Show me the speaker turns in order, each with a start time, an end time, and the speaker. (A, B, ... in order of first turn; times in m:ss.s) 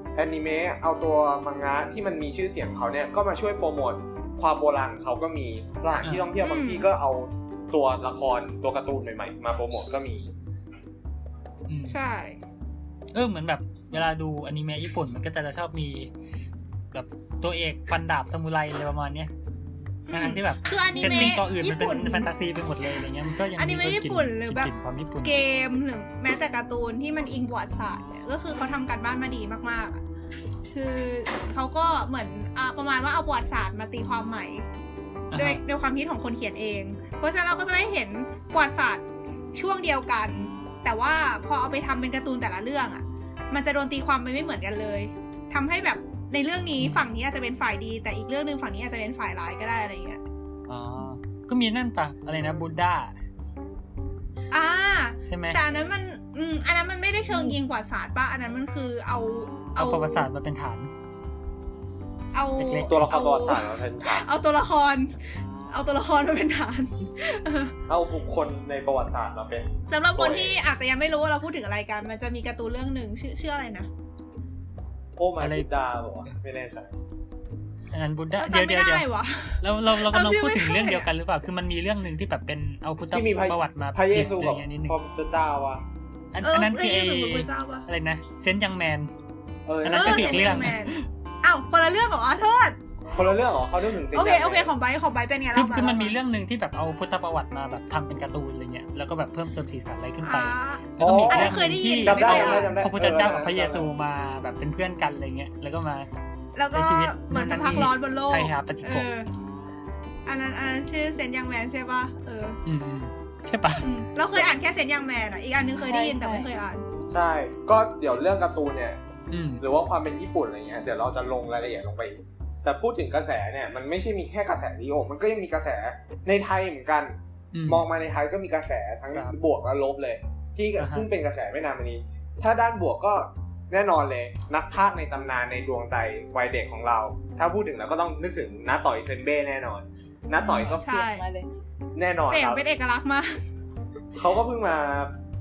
0:00.2-0:10.3 A
0:06.0-0:06.3 B
0:06.4-0:06.9 C
0:11.7-0:12.0 B
0:11.9-0:12.4 C
0:13.1-0:16.1 B
0:16.9-0:19.3 B
0:20.1-0:22.3 C
0:20.1-0:25.4 B
0:23.6-0:24.7 C
0:25.2-0:30.0 C
0:30.7-0:34.6 C
0:35.3-0:35.6 B
0:35.3-0:50.2 C
0:46.8-0:47.1 B
0:50.7-0:53.1 B
0:54.5-1:00.3 C
0:55.3-0:55.6 B
0:57.3-0:57.6 D
0:59.8-1:00.9 B
1:02.3-1:05.2 C
1:02.6-1:03.5 B
1:02.9-1:04.3 A
1:05.7-1:07.8 C
1:07.9-1:10.6 A
1:09.9-1:13.9 C
1:15.2-1:16.9 A
1:15.4-1:15.7 B
1:17.9-1:19.1 B
1:18.4-1:21.1 C
1:19.6-1:25.0 B
1:23.1-1:25.8 A
1:26.3-1:29.1 B
1:26.4-1:27.9 C
1:29.7-1:30.8 A
1:29.8-1:31.0 B
1:29.9-1:32.8 C
1:33.1-1:34.7 A
1:34.1-1:36.2 C
1:35.5-1:46.1 B
1:40.2-1:42.7 C
1:41.0-1:43.9 A
1:46.6-1:49.3 C
1:46.7-1:49.1 B
1:50.3-1:52.6 C
1:52.7-1:53.9 B
1:53.8-1:56.9 C
1:55.8-1:56.5 D
1:57.1-1:59.0 A
1:59.3-1:59.6 B
1:59.6-2:07.2 A
2:07.5-2:07.8 B
2:07.7-2:20.9 A
2:10.8-2:11.1 B
2:20.4-2:21.5 D
2:20.8-2:21.2 C
2:22.0-2:22.6 A
2:22.3-2:23.4 C
2:24.2-2:25.1 A